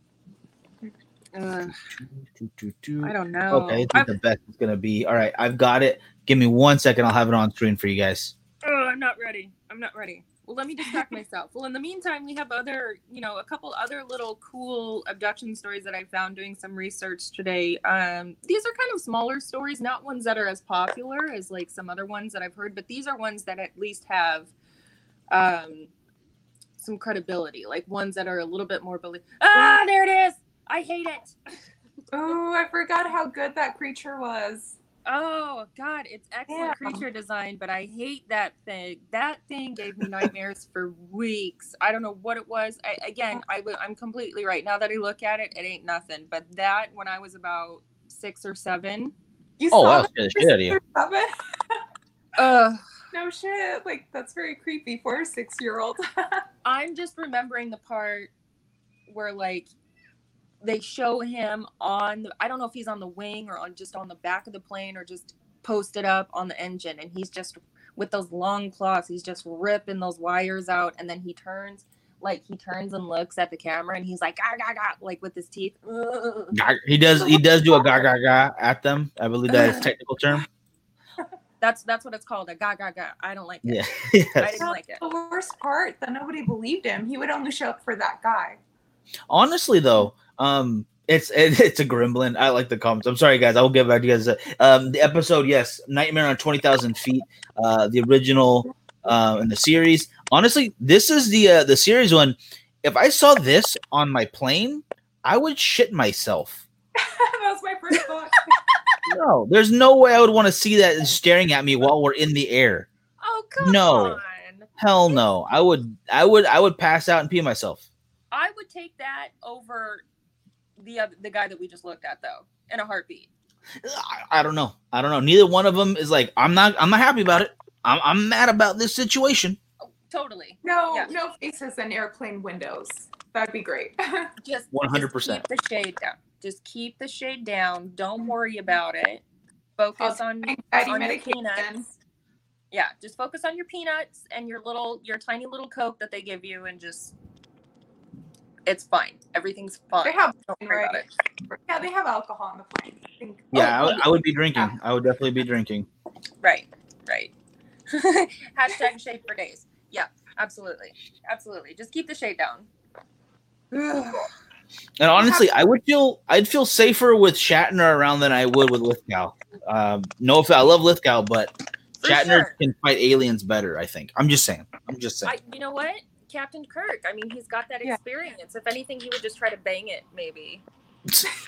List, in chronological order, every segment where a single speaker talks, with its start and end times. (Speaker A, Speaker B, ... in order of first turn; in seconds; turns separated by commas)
Speaker A: 1.3-1.8, Speaker B: 1.7-8.3, Speaker A: 3.0-4.1, Speaker A: 8.6-24.5, Speaker A: 25.3-25.9, Speaker A: 26.8-31.6, Speaker C: 29.5-29.8, Speaker C: 32.1-34.8, Speaker A: 35.0-49.1, Speaker C: 36.5-37.0, Speaker C: 49.6-51.8, Speaker B: 49.7-50.8, Speaker A: 52.4-52.8, Speaker C: 53.1-56.4, Speaker A: 56.6-58.3, Speaker A: 59.1-59.7, Speaker A: 60.6-76.6, Speaker B: 76.5-80.4, Speaker C: 79.5-79.8, Speaker A: 81.6-85.0, Speaker B: 83.6-84.6, Speaker C: 84.6-88.6, Speaker B: 89.3-106.6, Speaker C: 107.0-108.5, Speaker B: 109.0-112.9, Speaker A: 113.2-115.2, Speaker B: 113.6-114.2, Speaker B: 114.8-117.8, Speaker A: 118.3-120.0, Speaker A: 120.8-123.3, Speaker B: 123.8-129.6, Speaker A: 129.8-131.1, Speaker C: 130.6-134.3, Speaker A: 134.4-139.2, Speaker B: 134.7-135.4, Speaker A: 139.8-141.9, Speaker C: 140.0-141.9, Speaker A: 142.7-147.1, Speaker A: 148.7-151.1, Speaker C: 150.0-154.0, Speaker B: 153.5-155.9, Speaker A: 153.6-154.0, Speaker A: 156.4-157.3, Speaker A: 157.9-162.7, Speaker C: 163.7-164.3, Speaker B: 165.0-175.3, Speaker C: 165.1-165.4, Speaker A: 172.0-172.5, Speaker A: 175.2-180.6